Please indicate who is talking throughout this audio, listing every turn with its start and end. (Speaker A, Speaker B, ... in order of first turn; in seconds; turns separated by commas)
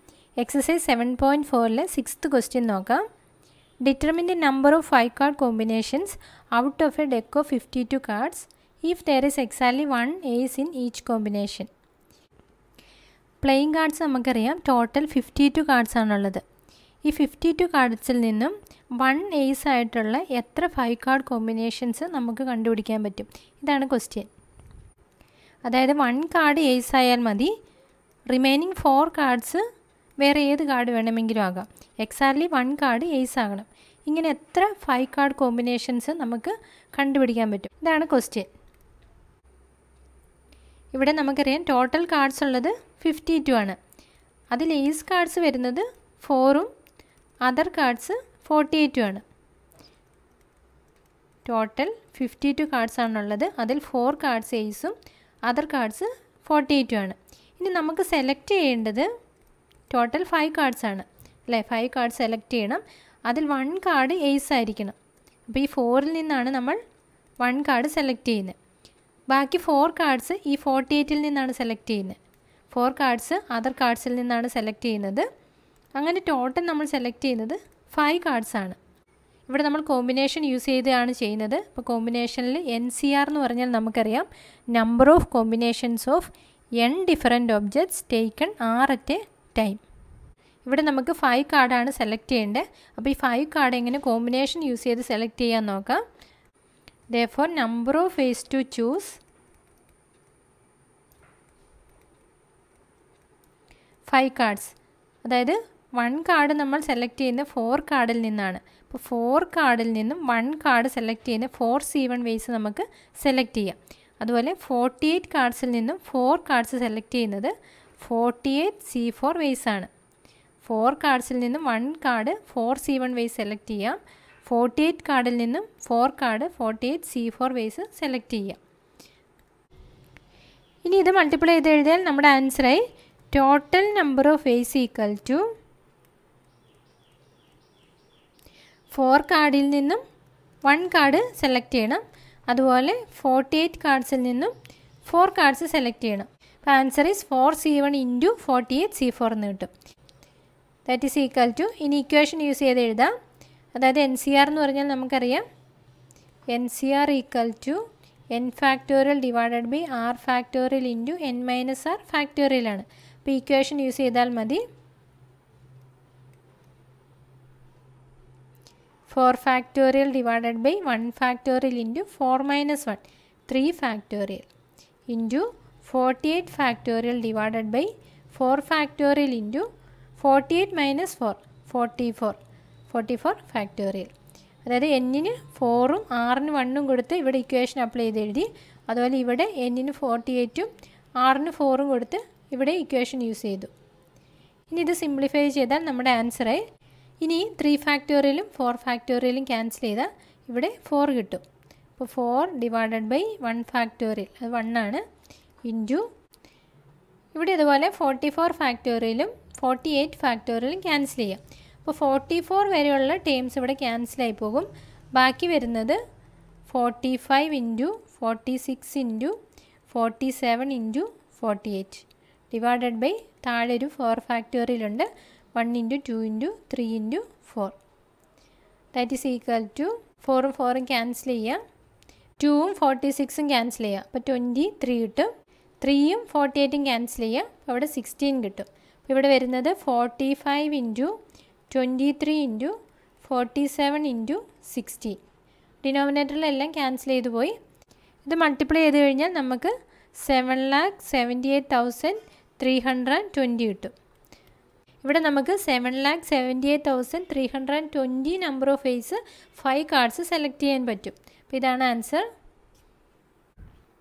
Speaker A: 0.4-3.0, Speaker A: 3.8-11.7, Speaker A: 13.4-16.4, Speaker A: 17.0-24.3, Speaker A: 25.6-27.5, Speaker A: 28.3-29.6, Speaker A: 30.2-38.5, Speaker A: 40.9-43.8, Speaker A: 44.5-46.7, Speaker A: 47.4-49.2, Speaker A: 51.4-54.9, Speaker A: 55.5-59.1, Speaker A: 59.9-64.9, Speaker A: 65.5-66.8, Speaker A: 67.4-68.5, Speaker A: 69.3-72.2, Speaker A: 72.7-75.2, Speaker A: 76.0-78.8, Speaker A: 79.5-89.8, Speaker A: 90.7-96.0, Speaker A: 97.1-99.2, Speaker A: 104.1-119.9, Speaker A: 120.6-128.6, Speaker A: 130.8-135.4, Speaker A: 138.9-140.0, Speaker A: 140.6-144.5, Speaker A: 145.0-149.7, Speaker A: 150.8-153.1, Speaker A: 153.7-155.4, Speaker A: 156.5-164.6, Speaker A: 169.1-174.4, Speaker A: 175.1-179.7, Speaker A: 180.2-182.4, Speaker A: 182.9-184.1, Speaker A: 184.7-193.7, Speaker A: 194.7-196.6, Speaker A: 197.2-201.4, Speaker A: 202.0-205.0, Speaker A: 205.6-206.1, Speaker A: 207.3-216.0, Speaker A: 216.7-219.3, Speaker A: 219.9-227.7, Speaker A: 228.9-231.6, Speaker A: 232.4-235.3, Speaker A: 235.8-241.1, Speaker A: 241.7-245.2, Speaker A: 245.8-247.5, Speaker A: 248.2-253.9, Speaker A: 255.0-262.2